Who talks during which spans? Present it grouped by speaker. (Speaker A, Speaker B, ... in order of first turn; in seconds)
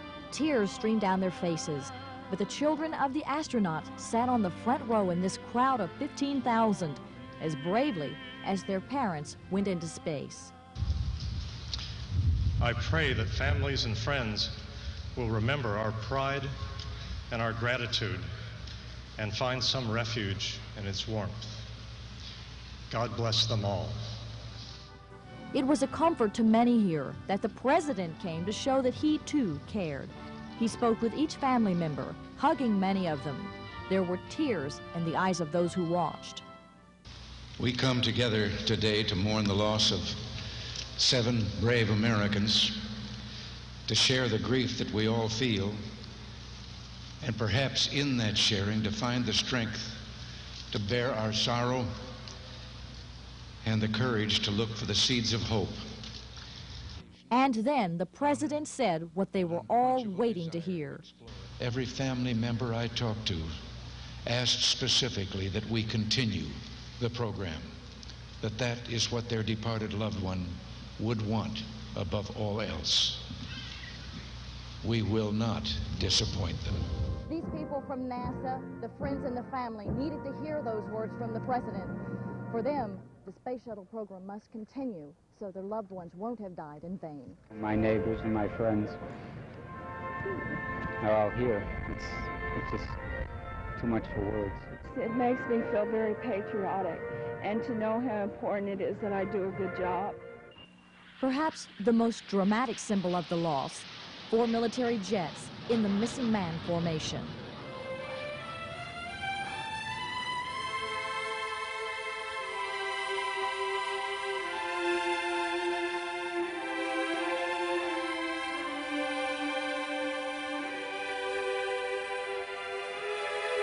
Speaker A: 0.3-10.5, 25.5-36.4, 57.3-61.0, 101.2-107.4
Speaker B: 12.6-14.5, 15.2-16.5, 17.3-18.3, 19.2-21.6, 22.9-23.9
Speaker C: 37.6-43.0, 43.9-45.8, 47.2-50.1, 50.7-51.9, 53.6-55.8, 61.6-63.5, 64.3-67.7, 68.4-73.3, 74.8-76.8
Speaker D: 77.3-82.0, 82.5-87.4
Speaker E: 87.5-89.0, 91.0-93.0, 93.8-94.7
Speaker F: 94.9-100.2